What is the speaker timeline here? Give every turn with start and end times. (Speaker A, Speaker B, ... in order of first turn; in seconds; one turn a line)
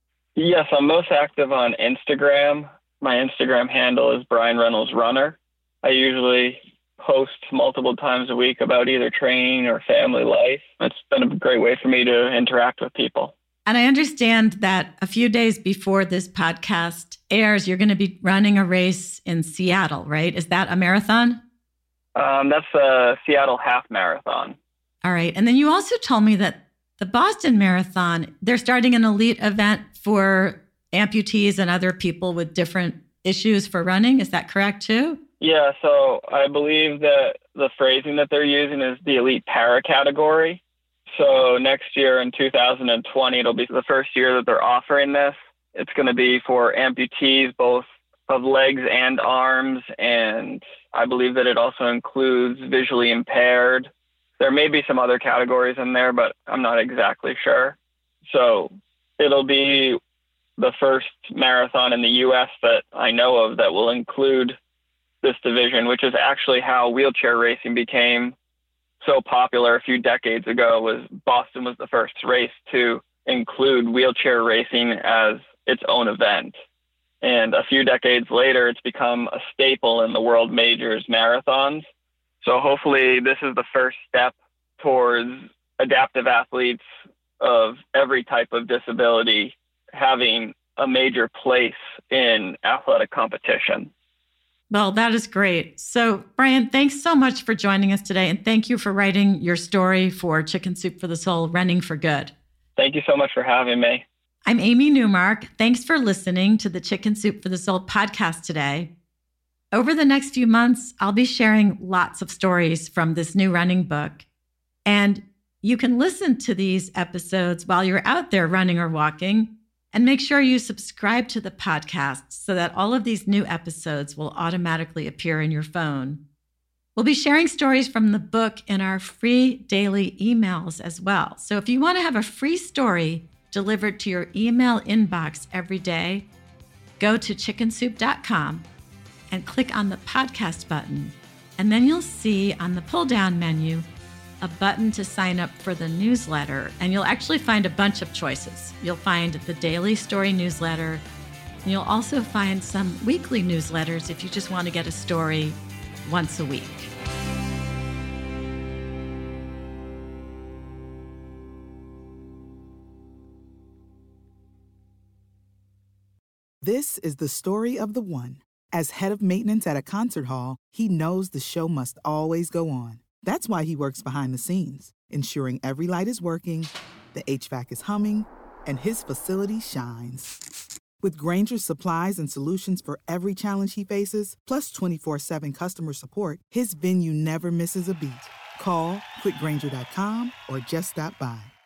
Speaker A: 0.4-13.3
Speaker B: 13.7-21.4
Speaker A: 22.1-24.6
Speaker B: 25.0-35.2
Speaker A: 35.4-40.6
Speaker A: 41.1-60.0
Speaker A: 60.6-64.6
Speaker A: 65.2-68.3
Speaker A: 69.0-76.5
Speaker A: 77.2-81.9
Speaker A: 82.4-86.8
Speaker A: 87.4-93.9
Speaker B: 94.7-102.3
Speaker A: 102.8-104.0
Speaker B: 104.5-108.9
Speaker B: 109.7-114.2
Speaker B: 114.8-126.2
Speaker B: 127.0-136.2
Speaker B: 137.0-138.7
Speaker B: 139.3-143.9
Speaker B: 144.4-151.0
Speaker B: 151.6-156.9
Speaker C: 166.6-180.3
Speaker C: 181.0-191.5